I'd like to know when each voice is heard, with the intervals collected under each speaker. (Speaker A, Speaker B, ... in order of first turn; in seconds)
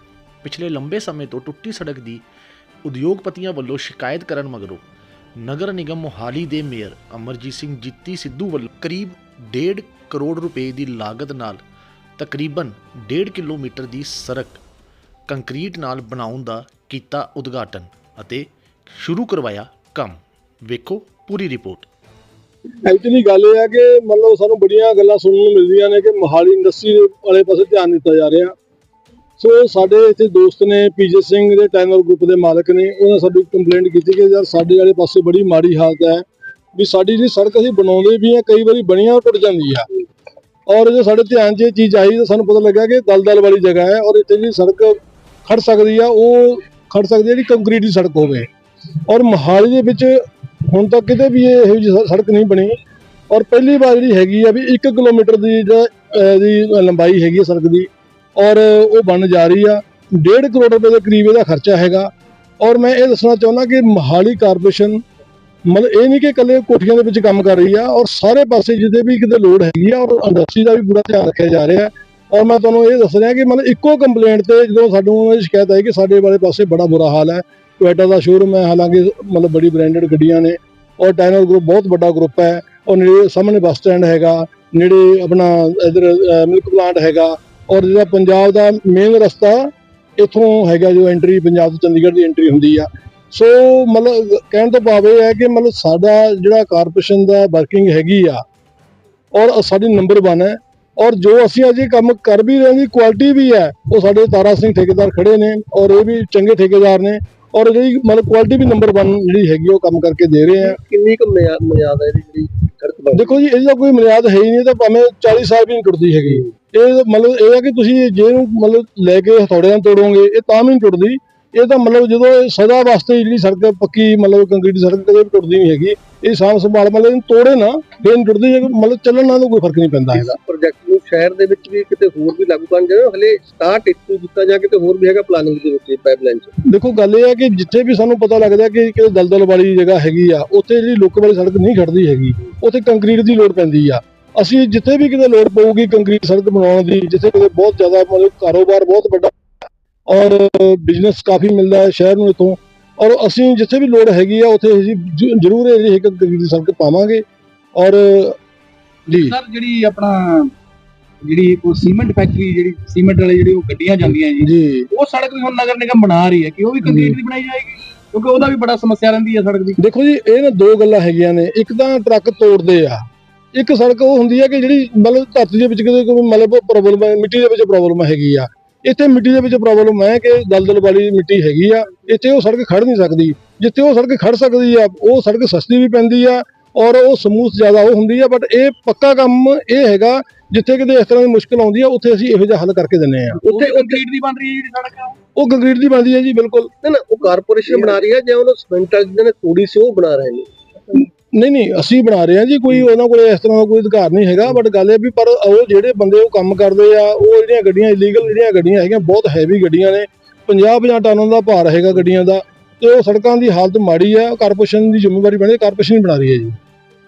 Speaker A: 0.4-2.2, 2.8-4.8, 5.4-11.6, 12.2-14.6, 15.3-21.9
Speaker B: 22.9-28.5, 29.4-36.2, 36.7-39.9, 40.7-48.5, 49.1-52.8, 53.3-65.0, 65.7-98.4, 99.3-110.8, 113.1-130.3, 136.6-149.3, 150.1-157.2, 157.7-158.4, 159.1-159.3, 164.4-164.9, 166.8-167.2, 169.8-193.4, 195.3-196.7, 200.9-216.5
Speaker C: 110.6-113.4, 130.1-136.5, 193.4-194.0, 196.8-200.5
Speaker D: 159.2-160.5, 161.2-169.8, 193.4-195.2